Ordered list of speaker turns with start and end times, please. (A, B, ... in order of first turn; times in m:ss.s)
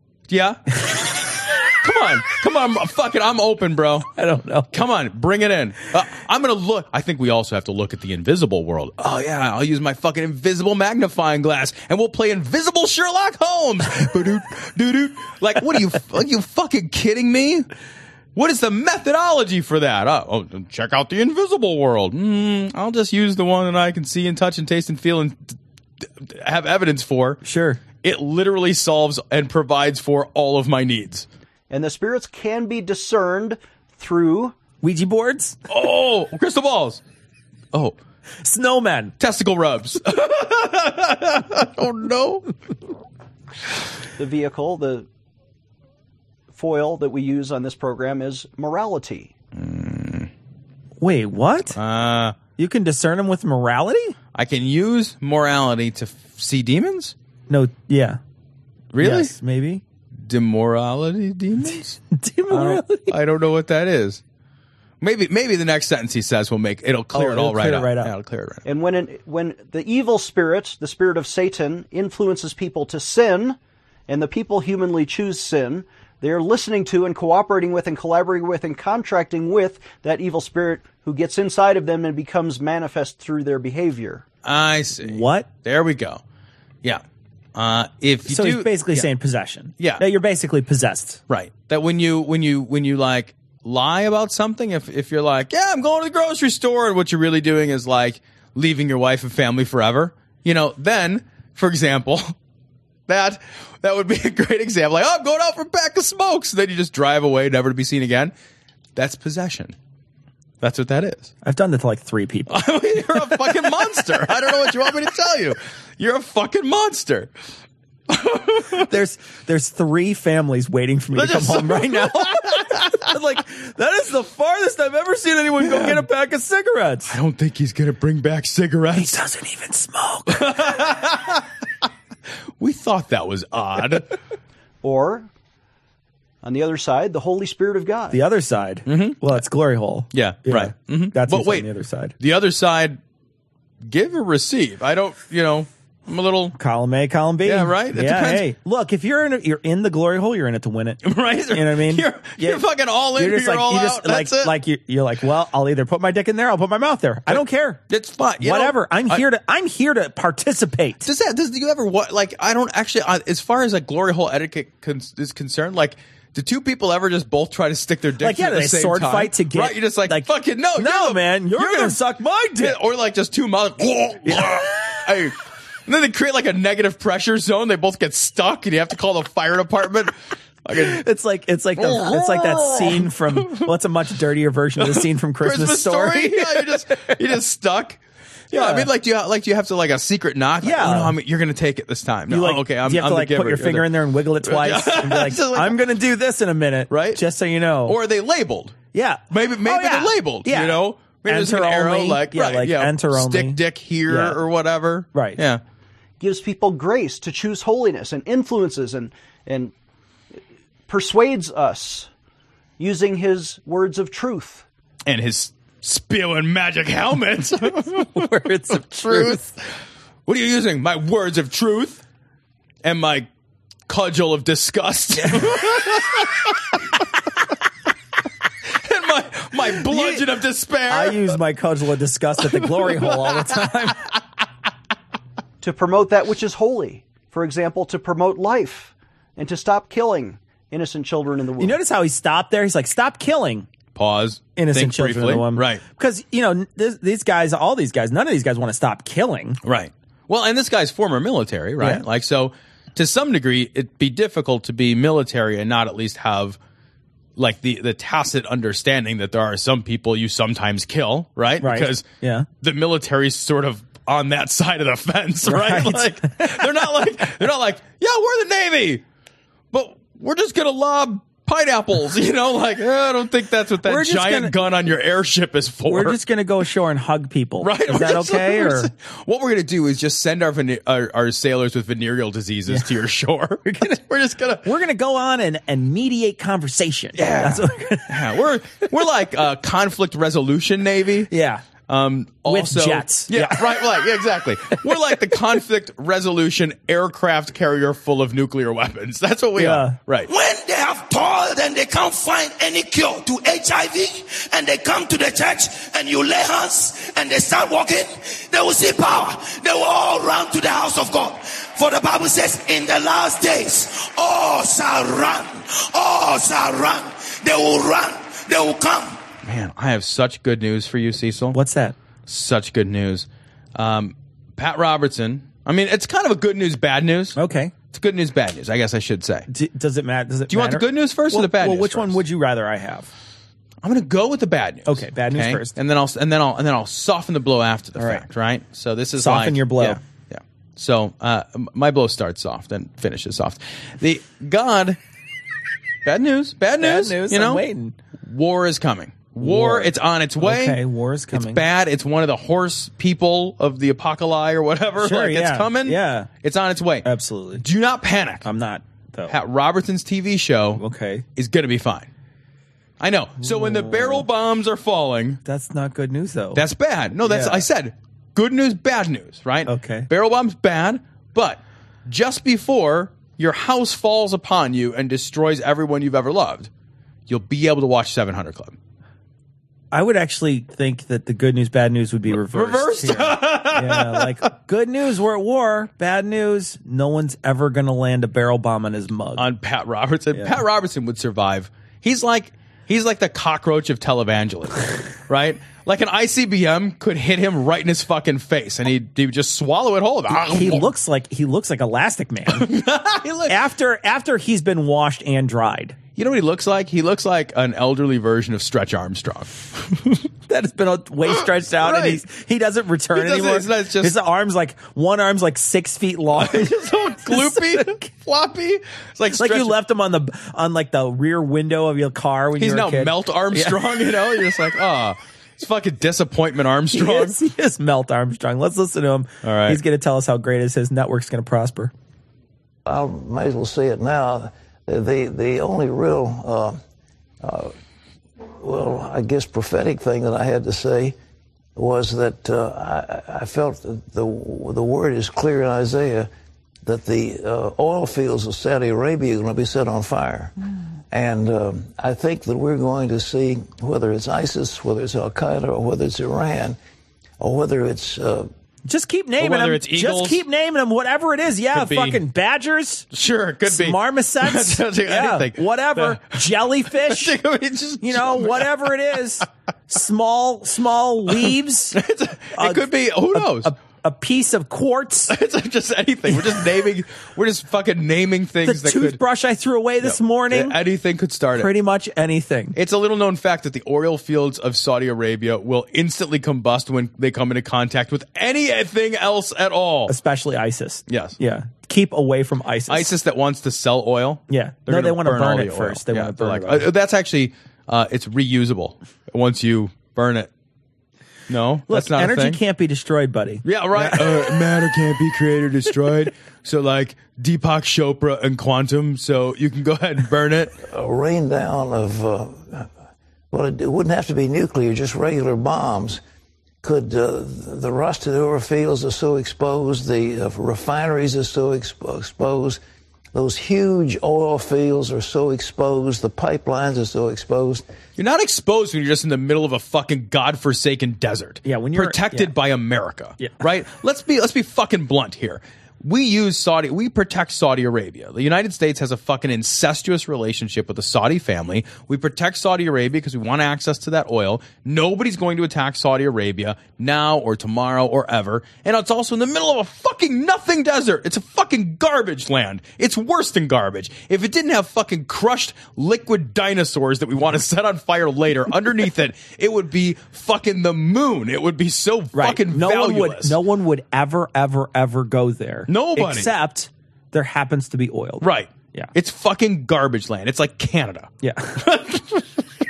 0:00.3-0:00.8 A
0:01.8-0:04.1 A
0:04.2-0:04.8 B
0:04.7-0:17.7 A
0:18.4-0:27.4 A
0:27.4-0:27.8 B
0:28.0-0:31.3 A
0:31.7-0:34.6 C
0:34.8-0:35.6 B
0:35.7-0:37.0 A
0:38.4-0:39.1 B
0:39.2-0:42.4 A
0:44.2-0:45.1 C
0:46.5-0:49.3 C
0:49.6-0:50.3 A
0:51.0-0:51.8 B
0:51.8-0:52.4 A
0:52.6-0:54.2 B
0:54.3-0:57.1 A
0:57.5-0:58.2 B
0:58.9-0:59.3 A
0:59.0-0:59.8 B
1:00.2-1:04.2 A
1:02.1-1:03.1 B
1:05.0-1:08.6 A
1:07.1-1:08.1 B
1:08.6-1:13.6 C
1:14.1-1:24.2 C
1:24.4-1:26.2 A
1:25.0-1:25.5 B
1:27.6-1:29.1 A
1:28.3-1:31.2 B
1:31.3-1:42.3 A
1:43.1-1:48.3 A
1:49.0-1:49.8 A
1:50.6-1:51.3 A
1:51.4-1:52.6 B
1:52.5-1:57.3 A
1:53.2-1:53.4 B
1:58.1-1:58.9 A
1:58.9-2:07.2 B
2:01.2-2:03.0 A
2:05.6-2:06.1 A
2:07.1-2:09.2 A
2:09.0-2:10.8 B
2:10.3-2:11.4 A
2:12.6-2:14.1 A
2:14.8-2:15.3 C
2:16.4-2:18.2 C
2:18.1-2:22.2 B
2:18.9-2:19.4 A
2:20.1-2:21.7 A
2:22.2-2:23.0 A
2:23.9-2:26.6 A
2:26.6-2:32.6 B
2:27.4-2:28.5 A
2:31.0-2:34.5 A
2:33.2-2:37.8 B
2:37.3-2:39.2 A
2:38.4-2:41.1 B
2:41.0-2:52.0 A
2:48.2-2:52.8 B
2:52.6-3:00.1 A
2:54.2-2:54.7 B
3:00.6-3:01.0 A
3:00.8-3:07.2 B
3:01.8-3:03.7 A
3:04.9-3:08.0 A
3:08.5-3:13.9 A
3:08.5-3:08.9 B
3:10.6-3:11.1 B
3:12.3-3:18.0 B
3:14.4-3:15.8 A
3:16.9-3:17.2 A
3:17.9-3:18.8 A
3:18.9-3:24.4 B
3:19.3-3:25.6 A
3:25.1-3:25.4 B
3:26.2-3:29.7 C
3:30.9-3:32.1 C
3:32.8-3:34.6 C
3:35.1-3:39.5 A
3:37.8-3:39.4 B
3:40.3-3:42.0 A
3:42.8-3:43.3 A
3:43.9-3:46.5 A
3:45.2-3:45.5 B
3:48.8-3:51.4 A
3:49.9-3:50.2 B
3:50.9-3:54.0 B
3:55.6-4:01.8 C
4:01.6-4:03.7 B
4:04.0-4:05.8 A
4:04.6-4:09.6 B
4:09.6-4:16.6 A
4:17.4-4:22.0 A
4:21.6-4:22.5 B
4:22.6-4:29.0 A
4:25.5-4:26.7 B
4:29.7-4:36.2 A
4:33.8-4:34.5 B
4:35.9-4:38.9 B
4:37.6-4:44.6 A
4:43.6-4:44.0 B
4:44.6-4:48.2 B
4:47.2-4:51.3 A
4:51.3-4:51.6 B
4:51.9-5:00.3 A
4:52.5-4:53.8 B
4:59.6-5:00.0 B
5:00.3-5:19.2 D
5:19.4-5:21.6 A
5:21.5-5:22.0 B
5:22.3-5:27.4 A
5:27.4-5:27.7 B
5:27.9-5:29.5 A
5:29.5-5:33.1 B
5:30.5-5:32.2 A
5:33.8-5:45.0 A
5:34.9-5:35.7 B
5:38.0-5:38.2 B
5:39.2-5:40.0 B
5:46.0-5:47.6 A
5:46.8-5:47.9 B
5:48.3-5:50.8 A
5:49.4-5:51.6 B
5:51.3-5:57.1 A
5:55.0-5:56.3 B
5:57.0-5:57.6 B
5:57.6-5:58.4 A
5:58.4-5:59.3 B
5:59.3-6:00.8 A
6:00.8-6:01.2 B
6:01.4-6:02.1 A
6:03.0-6:05.4 A
6:03.4-6:04.2 B
6:05.4-6:06.6 B
6:06.6-6:16.7 A
6:07.2-6:07.6 B
6:09.7-6:10.1 B
6:17.3-6:18.8 A
6:19.9-6:29.4 B
6:22.3-6:24.3 A
6:29.4-6:40.9 A
6:30.3-6:30.6 B
6:40.3-6:42.7 B
6:42.5-6:43.6 A
6:43.5-6:46.0 B
6:46.2-6:50.2 A
6:50.5-6:58.1 B
6:51.8-6:52.2 A
6:53.1-6:54.2 A
6:56.4-6:59.8 A
6:59.3-7:04.0 B
7:02.6-7:07.4 A
7:06.9-7:11.9 B
7:09.4-7:09.8 A
7:12.9-7:16.8 E
7:17.4-7:17.7 E
7:18.4-7:21.2 E
7:21.8-7:26.3 E
7:26.8-7:30.5 E
7:31.1-7:36.8 E
7:37.4-7:38.5 E
7:38.9-7:43.0 B
7:39.4-7:40.4 A
7:41.7-7:42.2 A
7:43.1-7:46.3 A
7:43.7-7:47.4 B
7:46.9-7:49.0 A
7:48.0-7:52.0 B
7:51.4-7:53.7 A
7:52.6-7:55.3 B
7:55.3-7:59.2 A
7:58.6-8:00.8 B
8:00.0-8:01.7 A
8:01.6-8:02.8 B
8:02.8-8:10.1 A
8:10.1-8:13.1 B
8:11.1-8:11.4 A
8:12.9-8:20.5 A
8:14.5-8:16.9 B
8:21.5-8:22.6 A
8:21.9-8:24.5 B
8:23.6-8:30.8 A
8:30.8-8:32.9 E
8:33.5-8:36.2 E
8:36.8-8:42.8 E
8:43.3-8:47.8 E
8:48.2-9:23.6 A
8:51.6-8:52.5 B
9:22.3-9:29.1 B
9:25.9-9:26.5 A
9:28.4-9:32.4 A
9:31.4-9:31.8 B